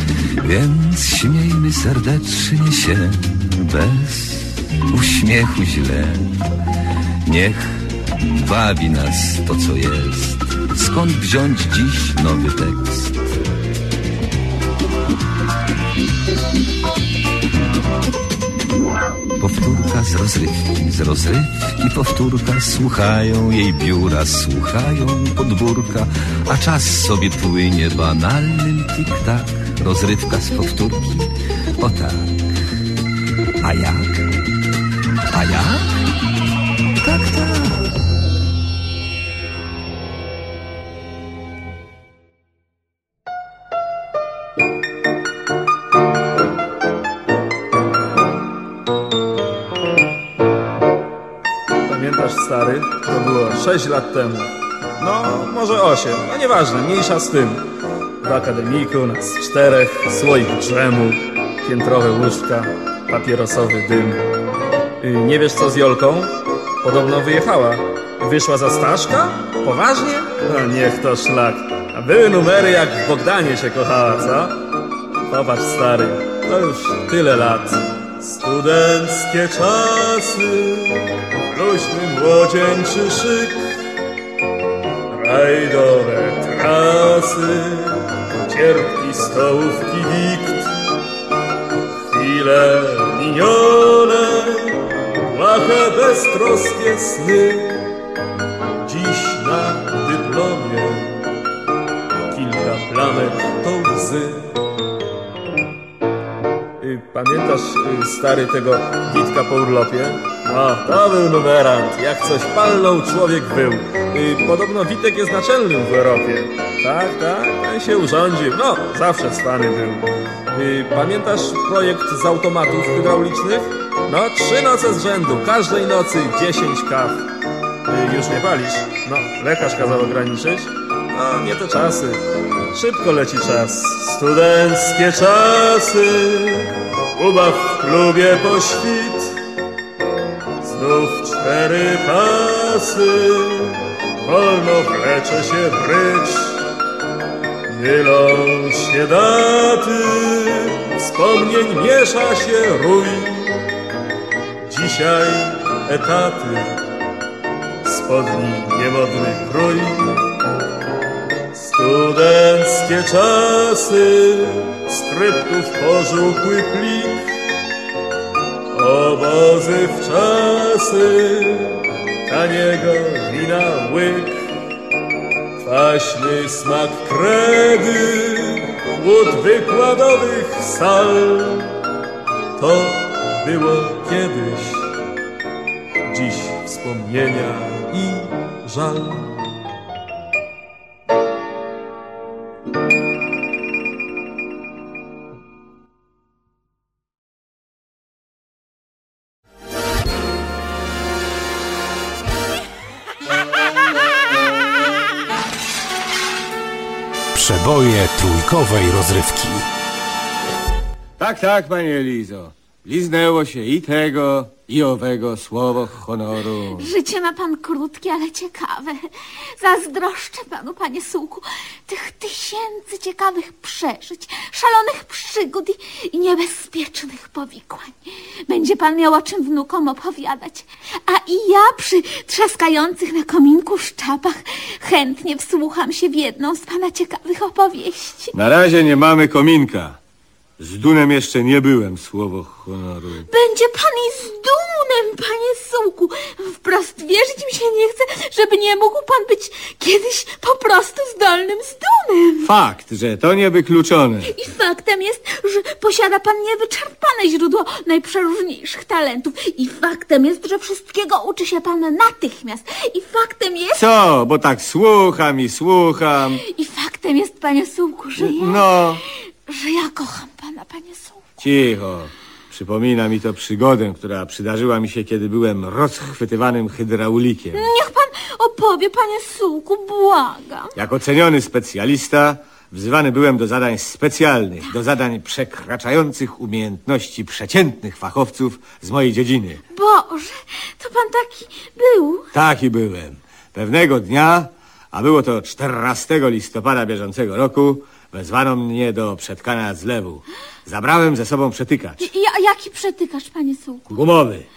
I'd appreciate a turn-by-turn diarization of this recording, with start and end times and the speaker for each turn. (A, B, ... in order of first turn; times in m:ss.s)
0:00.4-0:06.4 A
0:07.3-0:13.2 A
0:19.4-0:32.5 A
0:33.6-0:34.3 A
0:35.3-0:35.9 A
0:37.0-0:37.8 A
0:51.9-0:57.7 B
0:58.2-1:04.2 B
1:05.0-1:14.6 B
1:15.3-1:23.7 B
1:25.1-1:30.9 B
1:32.1-1:37.9 B
1:38.8-1:41.2 B
1:42.2-1:44.6 B
1:46.8-2:07.3 B
2:07.9-2:19.3 B
2:20.6-2:26.6 B
2:27.7-2:33.6 B
2:34.7-2:36.8 B
2:37.8-2:40.4 B
2:41.5-2:47.2 B
2:48.7-2:54.5 B
2:55.6-3:01.8 B
3:02.6-3:05.0 B
3:06.1-3:09.4 B
3:27.3-3:29.7 C
3:31.2-3:36.9 D
3:36.8-3:39.1 E
3:39.6-3:48.0 E
3:48.5-3:58.3 E
3:58.3-4:00.0 D
4:00.6-4:03.3 D
4:03.3-4:12.4 E
4:12.4-4:14.3 D
4:14.3-4:23.8 E
4:23.7-4:26.4 D
4:26.4-4:28.7 E
4:28.2-4:29.0 D
4:29.5-4:31.2 E
4:31.4-4:37.7 D
4:37.5-4:40.7 E
4:40.8-4:49.6 D
4:49.7-4:52.3 E
4:52.3-5:02.1 D
5:02.0-5:03.9 E
5:03.9-5:04.5 D